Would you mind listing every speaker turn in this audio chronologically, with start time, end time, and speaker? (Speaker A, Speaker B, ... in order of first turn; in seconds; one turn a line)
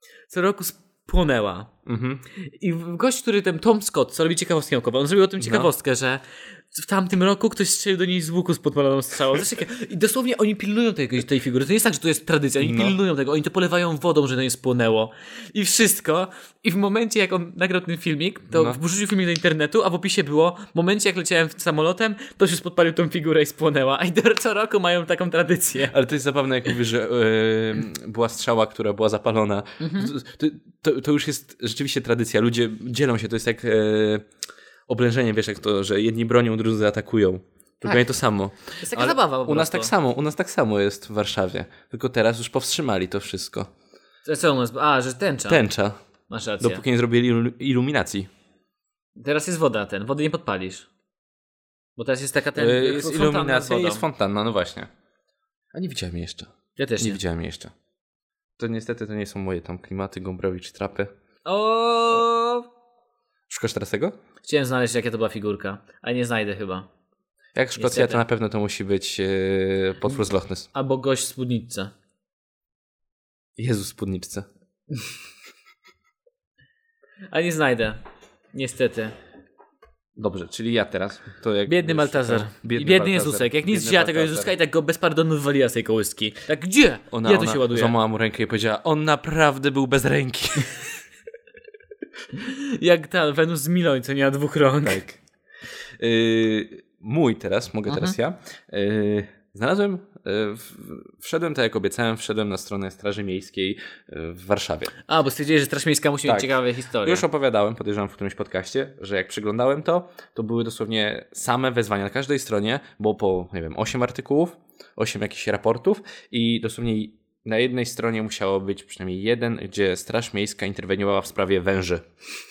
Speaker A: 0.3-1.7
Speaker B: 1.9-2.2
Speaker A: 2.3-25.9
Speaker B: 5.4-5.7
Speaker B: 12.6-13.0
Speaker B: 18.5-18.8
Speaker B: 25.9-34.2
Speaker A: 29.8-30.1
Speaker B: 34.9-43.7
Speaker A: 38.8-39.9
Speaker A: 44.2-45.6
Speaker B: 45.5-46.0
Speaker A: 46.3-46.8
Speaker B: 46.6-48.3
Speaker A: 49.1-50.9
Speaker A: 52.0-54.0
Speaker B: 52.5-54.9
Speaker B: 55.7-57.7
Speaker A: 56.8-57.2
Speaker B: 58.6-61.1
Speaker A: 61.4-62.7
Speaker B: 63.5-64.1
Speaker A: 64.4-66.9
Speaker B: 67.5-70.7
Speaker A: 67.8-68.2
Speaker A: 70.7-71.9
Speaker B: 73.6-74.5
Speaker A: 77.3-78.0
Speaker A: 78.5-79.1
Speaker B: 80.2-84.5
Speaker A: 81.7-87.9
Speaker B: 87.1-90.8
Speaker A: 92.3-95.0
Speaker B: 94.8-95.2
Speaker B: 96.0-104.9
Speaker A: 97.9-98.1
Speaker A: 105.1-107.2
Speaker B: 106.2-122.0